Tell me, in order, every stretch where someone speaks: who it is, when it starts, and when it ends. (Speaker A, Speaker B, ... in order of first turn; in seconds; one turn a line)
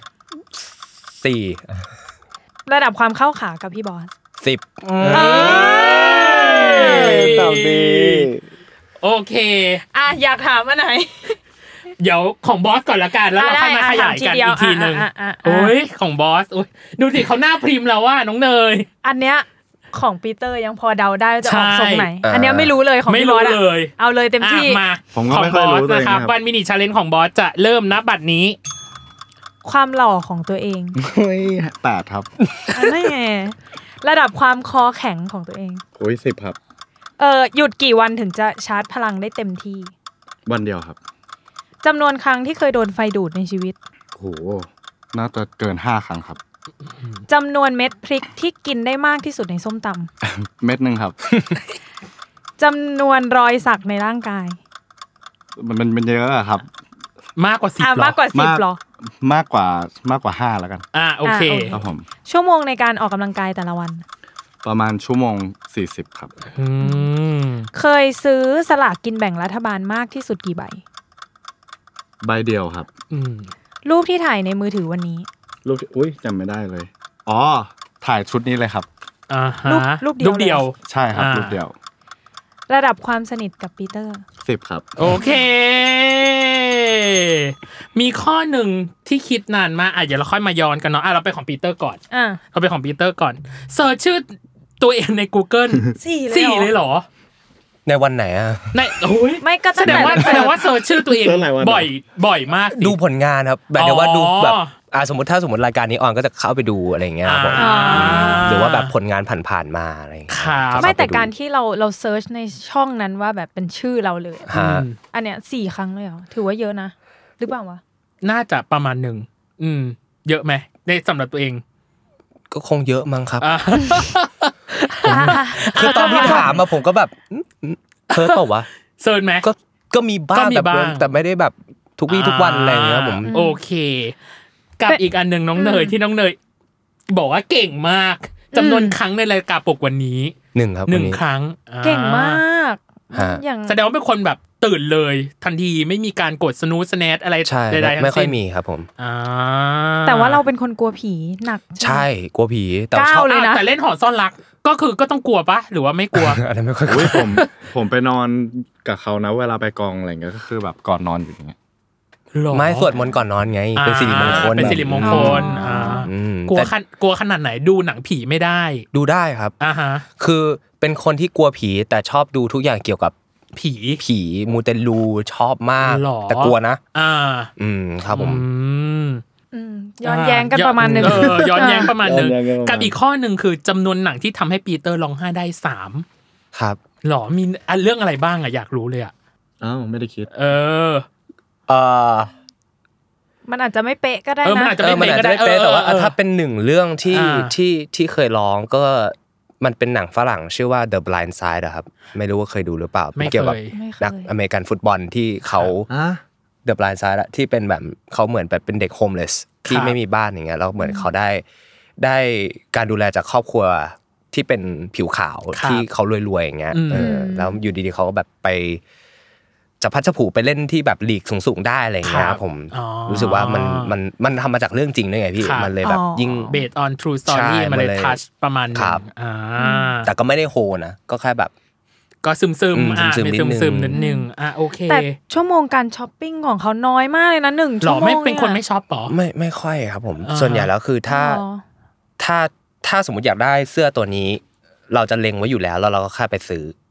Speaker A: 1.1-1.6
Speaker B: 2.6-4.1
Speaker A: 4.4-5.8
Speaker C: 5.0-8.4
Speaker B: 5.1-7.3
Speaker D: 5.4-8.3
Speaker D: 9.0-9.8
Speaker B: 9.9-11.4
Speaker D: 12.0-18.9
Speaker B: 13.3-15.7
Speaker B: 19.0-24.8
Speaker D: 21.4-22.1
Speaker A: 22.2-22.7
Speaker D: 23.1-28.6
Speaker C: 25.1-26.3
Speaker B: 29.6-31.0
Speaker C: 31.0-32.3
Speaker B: 32.7-35.8
Speaker C: 36.0-36.6
Speaker B: 37.2-39.9
Speaker C: 40.5-41.0
Speaker B: 41.8-43.8
Speaker C: 44.1-46.4
Speaker B: 47.3-50.1
Speaker C: 50.2-51.1
Speaker B: 52.6-54.6
Speaker C: 55.6-56.7
Speaker D: 57.4-58.2
Speaker B: 57.8-58.8
Speaker C: 58.3-58.6
Speaker C: 59.2-60.8
Speaker D: 60.9-61.8
Speaker B: 61.2-64.0
Speaker C: 61.7-62.0
Speaker C: 64.6-66.3
Speaker D: 66.5-67.7
Speaker B: 67.7-70.8
Speaker C: 72.2-72.9
Speaker D: 73.1-73.5
Speaker B: 73.8-75.3
Speaker C: 75.6-78.9
Speaker D: 79.3-81.6
Speaker B: 79.7-80.6
Speaker C: 80.8-81.7
Speaker B: 82.7-84.2
Speaker C: 84.4-84.9
Speaker D: 85.0-92.0
Speaker B: 85.0-85.4
Speaker B: 92.1-92.4
Speaker D: 92.5-94.3
Speaker D: 94.8-97.0
Speaker B: 96.0-96.7
Speaker A: 97.8-98.8
Speaker D: 98.7-103.0
Speaker B: 99.4-100.5
Speaker C: 99.8-100.5
Speaker C: 101.0-101.9
Speaker A: 102.8-111.3
Speaker D: 103.8-104.7
Speaker D: 107.2-108.9
Speaker B: 107.5-108.5
Speaker D: 110.3-110.9
Speaker B: 110.8-114.5
Speaker A: 114.5-114.8
Speaker D: 114.5-115.0
Speaker B: 115.1-117.8
Speaker D: 118.2-121.6
Speaker A: 122.5-123.5
Speaker D: 123.4-126.6
Speaker B: 125.0-126.5
Speaker A: 125.0-128.7
Speaker D: 128.1-128.4
Speaker D: 129.0-129.4
Speaker A: 129.4-133.3
Speaker D: 130.3-131.1
Speaker D: 132.1-134.2
Speaker B: 133.3-133.6
Speaker D: 134.8-136.4
Speaker B: 135.6-136.0
Speaker D: 137.1-140.3
Speaker B: 138.5-138.9
Speaker A: 140.5-141.2
Speaker D: 140.9-142.4
Speaker B: 141.8-143.8
Speaker A: 143.1-143.4
Speaker D: 143.7-148.3
Speaker A: 147.4-148.9
Speaker D: 149.0-150.4
Speaker B: 150.0-152.1
Speaker A: 151.8-153.2
Speaker B: 152.9-153.6
Speaker D: 153.2-156.4
Speaker A: 156.1-157.4
Speaker C: 156.9-161.6
Speaker D: 156.9-157.5
Speaker D: 162.3-163.0
Speaker A: 162.5-166.7
Speaker D: 163.8-168.8
Speaker C: 164.1-165.4
Speaker B: 165.0-166.1
Speaker A: 168.9-169.5
Speaker D: 169.6-170.0
Speaker A: 170.2-173.1
Speaker D: 173.6-174.0
Speaker A: 174.0-176.8
Speaker D: 175.8-177.5
Speaker A: 177.6-178.4
Speaker D: 178.1-179.2
Speaker B: 179.5-181.9
Speaker D: 180.0-186.0
Speaker C: 180.8-182.9
Speaker A: 186.5-186.8
Speaker D: 187.0-189.1
Speaker C: 189.6-190.3
Speaker D: 190.3-191.1
Speaker A: 191.7-192.3
Speaker B: 193.5-194.9
Speaker D: 194.4-196.1
Speaker A: 194.8-205.9
Speaker D: 197.1-197.5
Speaker D: 203.2-203.7
Speaker B: 203.7-204.3
Speaker D: 205.4-205.7
Speaker C: 205.9-206.2
Speaker A: 206.6-211.4
Speaker D: 209.7-210.0
Speaker B: 210.8-211.0
Speaker A: 212.0-218.8
Speaker D: 215.5-215.8
Speaker D: 216.7-217.1
Speaker B: 216.9-217.6
Speaker A: 219.8-226.5
Speaker D: 222.0-223.9
Speaker D: 225.4-225.7
Speaker B: 225.8-226.6
Speaker D: 226.5-230.1
Speaker A: 227.3-228.2
Speaker A: 228.7-229.0
Speaker B: 229.6-229.9
Speaker A: 230.0-231.5
Speaker D: 232.2-235.2
Speaker A: 232.7-234.0
Speaker B: 233.9-234.3
Speaker B: 234.9-238.6
Speaker D: 237.8-239.1
Speaker A: 239.1-241.4
Speaker D: 240.2-240.7
Speaker B: 241.1-241.6
Speaker A: 242.2-246.7